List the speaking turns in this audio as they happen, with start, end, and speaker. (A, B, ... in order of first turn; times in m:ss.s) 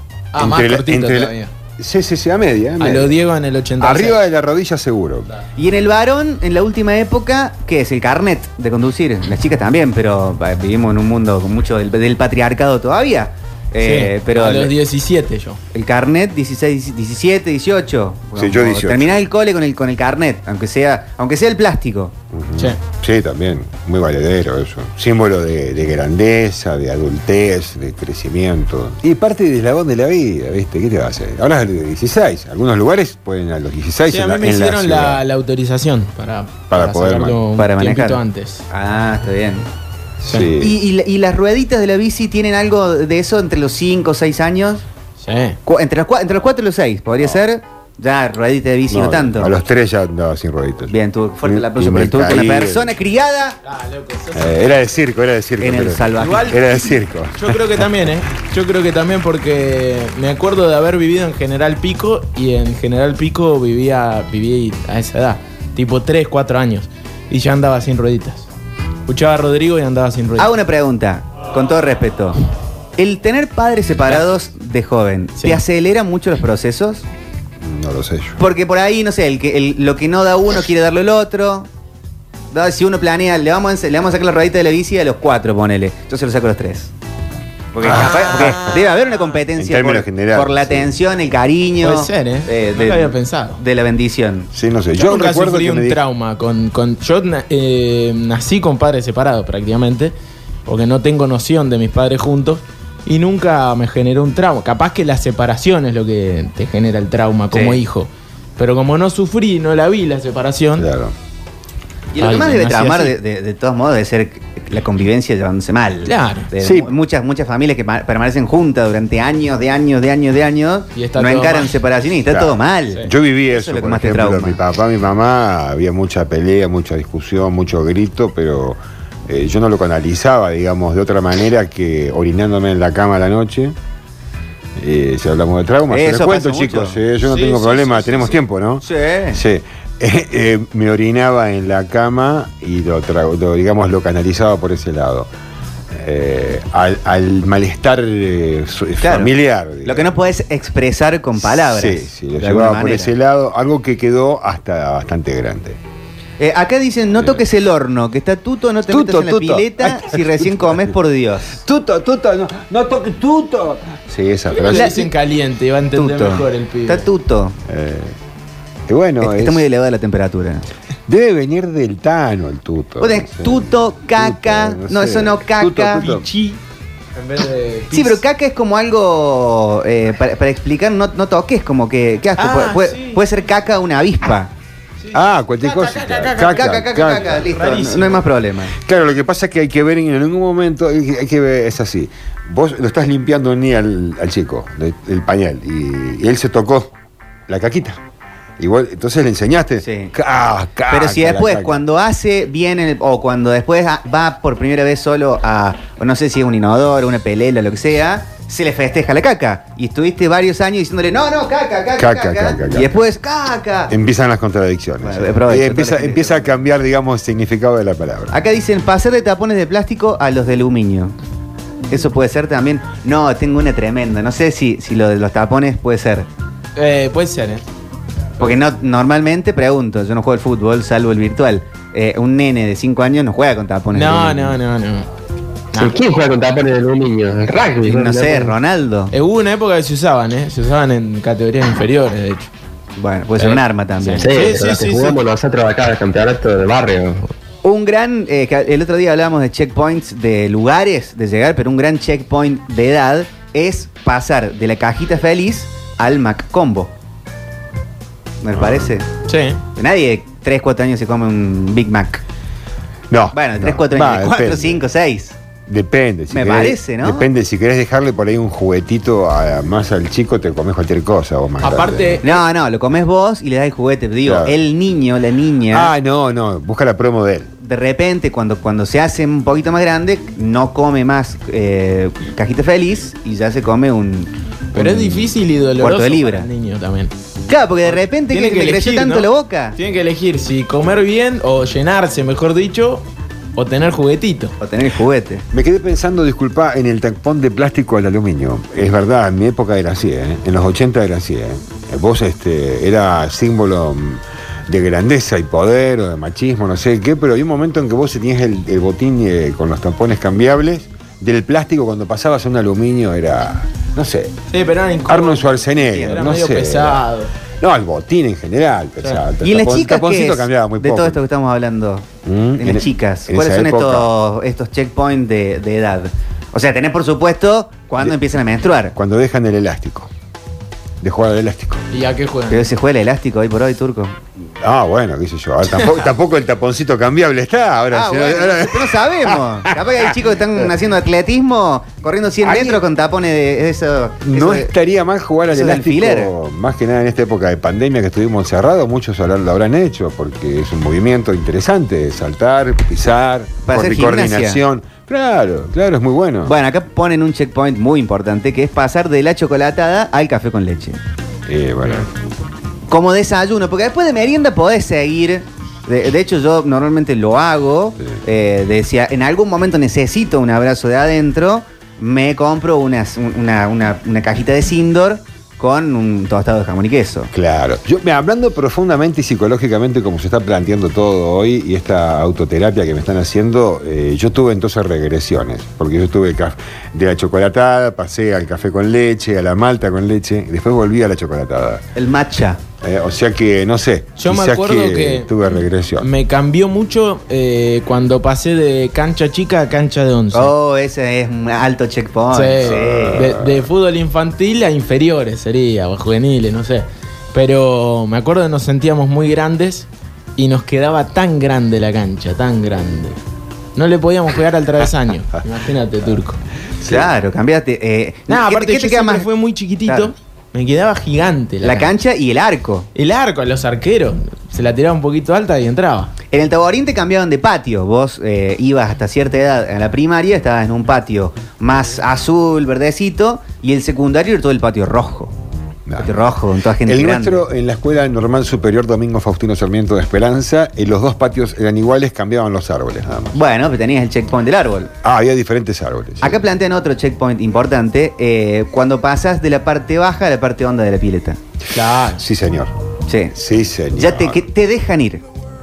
0:00.3-0:01.5 A
0:00.4-0:03.2 B
0:02.8-0:04.2 A
0:03.8-0:05.3 B
0:05.6-0:14.7 C
0:13.8-0:15.6 A
0:15.7-0:22.1 C
0:18.3-0:19.2 B
0:22.3-0:35.2 B
0:34.1-0:38.6 A
0:36.7-0:37.4 B
0:37.6-0:39.7 C
0:40.2-0:40.8 B
0:40.2-0:40.6 A
0:40.6-0:44.8 C
0:45.2-0:45.6 A
0:45.6-0:49.6 C
0:47.2-0:47.4 B
0:48.9-0:50.9 B
0:50.9-0:53.6 C
0:51.4-0:53.0 B
0:53.6-0:54.7 A
0:54.3-0:57.8 B
0:55.6-0:56.6 C
0:56.2-0:56.7 A
0:57.3-1:08.5 A
1:09.1-1:10.5 A
1:10.4-1:12.4 C
1:13.0-1:17.0 C
1:14.1-1:14.3 A
1:17.6-1:18.4 B
1:18.4-1:21.7 C
1:22.5-1:26.9 C
1:27.7-1:34.5 C
1:27.8-1:28.8 B
1:27.9-1:29.2 A
1:29.5-1:30.9 B
1:31.8-1:33.6 A
1:34.5-1:36.0 B
1:35.0-1:40.1 A
1:40.6-1:50.9 A
1:47.5-1:47.8 C
1:50.8-1:51.1 B
1:52.1-2:04.6 C
1:52.2-1:53.2 A
1:56.0-1:56.5 A
1:56.6-1:56.9 B
2:01.0-2:01.8 A
2:02.3-2:13.7 B
2:14.8-2:25.3 B
2:15.9-2:17.0 C
2:17.2-2:18.4 A
2:18.8-2:19.4 C
2:25.9-2:30.2 B
2:29.0-2:29.3 C
2:29.8-2:33.1 C
2:31.4-2:35.8 B
2:36.4-2:41.6 C
2:37.1-2:37.4 B
2:38.8-2:40.9 B
2:41.6-2:45.0 B
2:44.5-2:47.0 A
2:44.7-2:45.1 C
2:46.0-2:47.6 C
2:47.7-2:48.2 B
2:48.9-2:49.6 B
2:49.2-2:50.7 C
2:51.1-2:56.3 B
2:53.0-2:56.1 C
2:56.0-2:56.6 A
2:57.2-2:58.2 A
2:57.9-3:04.5 C
3:02.4-3:03.2 A
3:05.0-3:08.3 A
3:05.1-3:07.5 B
3:06.4-3:08.7 C
3:08.8-3:16.9 B
3:17.5-3:18.0 B
3:18.6-3:21.8 B
3:19.8-3:20.1 C
3:20.9-3:33.9 C
3:32.0-3:33.0 B
3:33.9-3:38.4 B
3:35.0-3:36.4 C
3:38.3-3:41.1 C
3:41.9-3:46.3 C
3:46.8-3:47.6 A
3:48.4-3:54.6 C
3:53.9-3:55.1 A
3:55.8-3:58.5 D
3:57.8-3:59.1 C
3:59.1-4:02.5 A
4:03.0-4:04.3 C
4:03.4-4:05.2 A
4:04.2-4:07.3 D
4:07.6-4:16.9 C
4:18.4-4:19.0 C
4:18.5-4:19.0 B
4:19.3-4:19.6 A
4:19.7-4:22.2 C
4:23.1-4:24.8 B
4:23.3-4:25.4 C
4:25.7-4:32.2 B
4:26.3-4:27.2 C
4:31.6-4:32.4 A
4:32.2-4:35.9 C
4:34.2-4:34.6 B
4:35.7-4:37.5 B
4:37.6-4:46.5 C
4:44.7-4:47.1 A
4:47.5-4:49.8 C
4:47.8-4:53.0 A
4:53.6-4:54.5 A
4:54.6-4:55.4 C
4:55.5-5:14.3 B
5:14.5-5:17.3 A
5:15.1-5:17.0 B
5:15.8-5:16.2 C
5:17.6-5:21.2 B
5:19.4-5:28.9 C
5:22.2-5:24.1 B
5:28.9-5:30.1 B
5:31.0-5:31.8 B
5:31.9-5:32.7 A
5:32.5-5:34.2 C
5:34.6-5:40.1 B
5:37.9-5:44.7 C
5:42.4-5:42.8 B
5:44.2-5:56.5 B
5:45.5-5:46.3 C
5:53.6-5:54.6 C
5:56.4-6:01.0 C
6:01.5-6:02.1 B
6:02.9-6:17.3 C
6:17.3-6:31.8 B
6:32.0-6:32.6 C
6:32.8-6:36.1 B
6:34.2-6:35.4 A
6:36.0-6:40.5 A
6:40.3-6:43.2 C
6:42.3-6:53.2 A
6:42.6-6:43.7 B
6:53.8-6:56.4 A
6:56.8-6:57.1 B
6:56.8-6:59.3 C
6:58.3-7:01.9 A
7:01.6-7:02.9 C
7:02.9-7:06.1 A
7:06.3-7:15.3 C
7:15.9-7:23.3 B
7:16.0-7:17.4 C
7:23.3-7:24.9 C
7:25.0-7:26.4 B
7:26.2-7:31.4 C
7:31.7-7:32.2 A
7:32.1-7:32.7 B
7:33.1-7:33.3 C
7:33.3-7:34.4 B
7:34.0-7:35.2 C